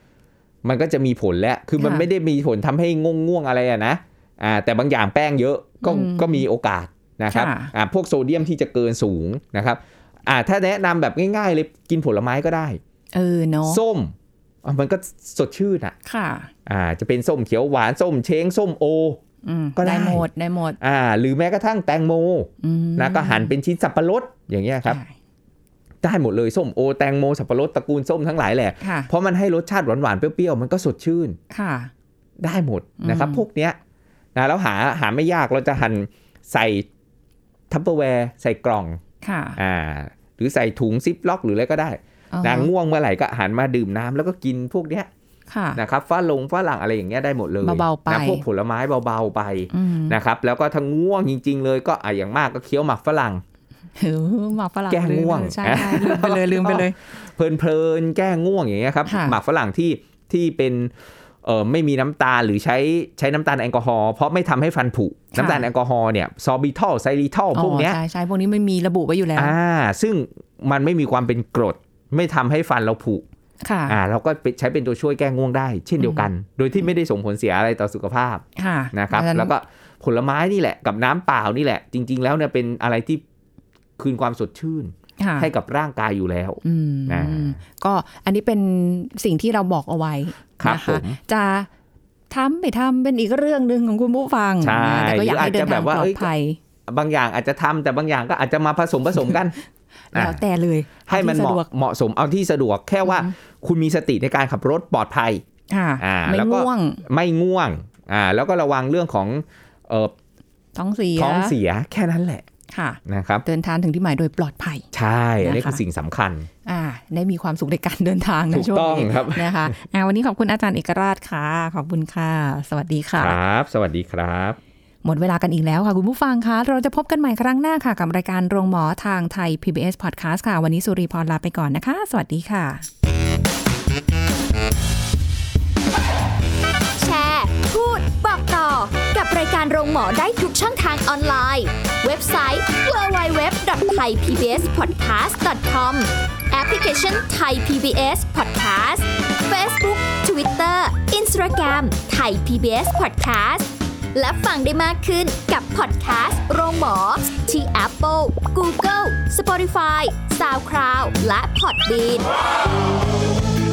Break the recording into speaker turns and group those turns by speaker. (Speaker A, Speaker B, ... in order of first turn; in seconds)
Speaker A: 0.6-12.8, 13.7-15.9, 16.6-19.2, 19.8-20.3, 20.8-25.0, 26.0-31.4, 32.4-33.8, 34.3-36.9, 37.7-39.0, 39.6-45.1, 45.8-53.4, 54.9-60.9, 61.4-68.0, 69.3-73.2, 73.9-83.2, 84.0-87.6, 90.6-91.2, 94.6-96.3, 96.9-99.5, 100.1-100.4, 101.1-105.4, 106.0-110.1, 111.2-112.5, 113.0-113.4, 114.9-116.5, 118.5-119.7, 123.2-124.6
Speaker B: 1.8-2.0, 5.8-6.4, 7.3-7.7, 13.1-13.8, 16.0-16.5, 19.4-20.8, 22.6-23.5, 24.8-25.1, 28.8-29.1, 31.5-31.9, 33.0-33.4, 39.2-39.6, 42.3-42.7, 45.5-45.8, 47.6-48.4, 49.7-50.2, 54.0-57.0, 59.0-59.4, 65.3-65.7, 67.5-69.5, 73.6-74.0, 76.0-76.3, 78.5-79.5, 85.2-85.5, 86.6-91.7, 92.3-96.6, 100.1-101.7, 103.0-103.3, 105.7-107.0, 110.8-111.5, 112.7-114.9, 115.4-115.8, 116.7-123.3, 125.0-132.8
Speaker C: 137.0-162.3